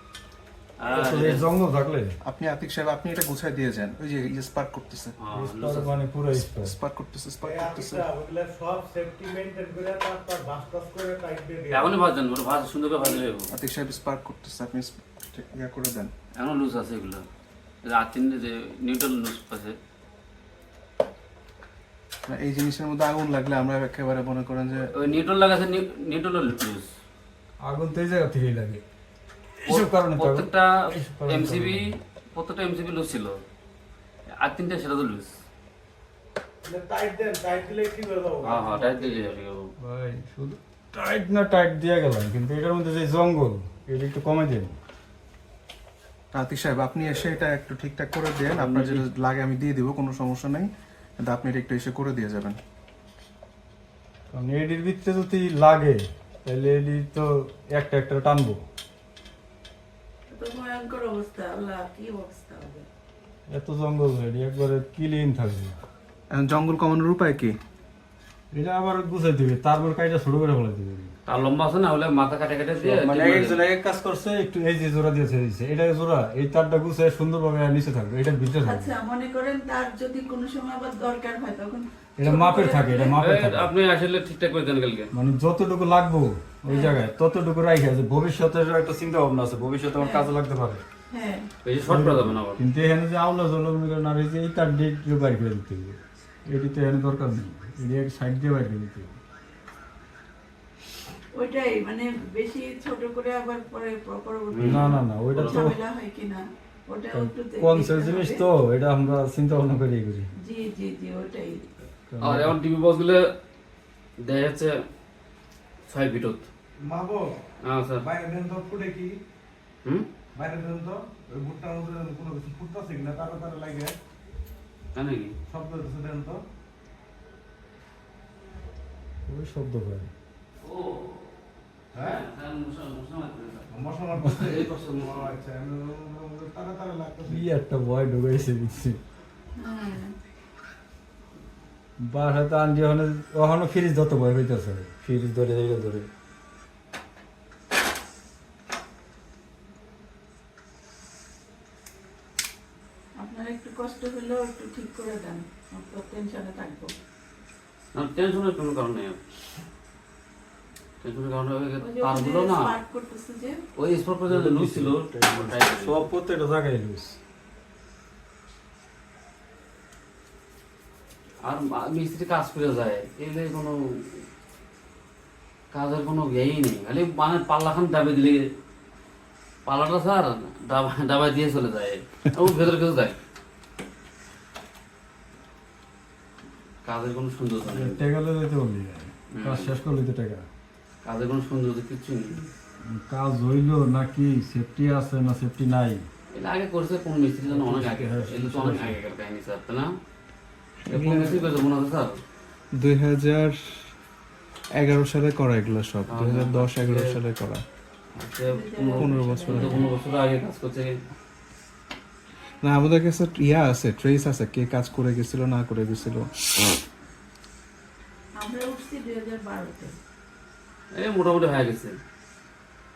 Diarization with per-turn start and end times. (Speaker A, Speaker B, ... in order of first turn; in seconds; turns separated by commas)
Speaker A: 0.8-1.5, Speaker B: 0.9-2.2, Speaker C: 2.2-5.1, Speaker A: 5.2-6.0, Speaker B: 5.3-6.8, Speaker C: 6.3-8.1, Speaker D: 7.4-12.0, Speaker A: 11.7-13.5, Speaker C: 13.5-16.1, Speaker A: 16.4-17.2, Speaker A: 17.8-19.8, Speaker C: 22.3-24.9, Speaker A: 25.0-26.9, Speaker B: 27.6-28.8, Speaker B: 29.6-31.8, Speaker A: 29.7-33.4, Speaker A: 34.4-35.3, Speaker D: 36.6-39.2, Speaker A: 38.4-39.7, Speaker B: 39.8-44.8, Speaker C: 46.3-52.6, Speaker A: 48.5-49.1, Speaker B: 54.3-58.6, Speaker E: 60.3-62.9, Speaker B: 63.5-65.8, Speaker C: 66.3-67.6, Speaker B: 68.5-71.1, Speaker A: 71.3-73.6, Speaker B: 72.8-78.9, Speaker E: 78.6-83.2, Speaker B: 82.2-83.7, Speaker A: 83.2-85.1, Speaker B: 85.1-90.8, Speaker E: 86.7-87.0, Speaker E: 90.0-90.3, Speaker E: 91.1-91.5, Speaker A: 91.6-92.6, Speaker B: 91.8-99.2, Speaker E: 101.3-108.4, Speaker A: 104.5-105.6, Speaker B: 104.6-105.8, Speaker B: 107.1-110.3, Speaker E: 110.4-111.7, Speaker B: 112.1-112.6, Speaker A: 112.2-113.2, Speaker A: 114.2-114.8, Speaker A: 115.9-116.5, Speaker D: 116.8-117.4, Speaker A: 117.6-118.1, Speaker D: 118.0-119.2, Speaker D: 120.3-123.9, Speaker A: 125.0-125.3, Speaker D: 125.5-126.4, Speaker B: 129.3-130.1, Speaker A: 130.6-131.1, Speaker D: 131.9-132.2, Speaker A: 131.9-133.7, Speaker D: 133.7-137.4, Speaker A: 134.3-135.3, Speaker B: 137.3-139.0, Speaker E: 139.6-140.1, Speaker B: 142.0-146.1, Speaker E: 153.2-156.9, Speaker A: 157.9-159.2, Speaker A: 161.0-162.8, Speaker E: 161.8-163.6, Speaker A: 163.8-166.1, Speaker B: 164.3-167.2, Speaker A: 171.4-174.2, Speaker A: 175.7-178.4, Speaker A: 179.7-183.2, Speaker A: 186.8-188.0, Speaker B: 187.7-190.5, Speaker A: 189.3-189.7, Speaker A: 191.0-192.5, Speaker B: 192.8-196.1, Speaker A: 196.3-199.9, Speaker B: 197.4-199.0, Speaker C: 200.8-201.6, Speaker A: 200.9-202.2, Speaker C: 202.7-203.9, Speaker C: 204.8-207.6, Speaker A: 206.1-207.2, Speaker A: 208.2-210.9, Speaker E: 208.5-209.9, Speaker C: 208.9-209.9, Speaker C: 212.6-216.3, Speaker E: 218.4-219.9, Speaker A: 221.0-222.0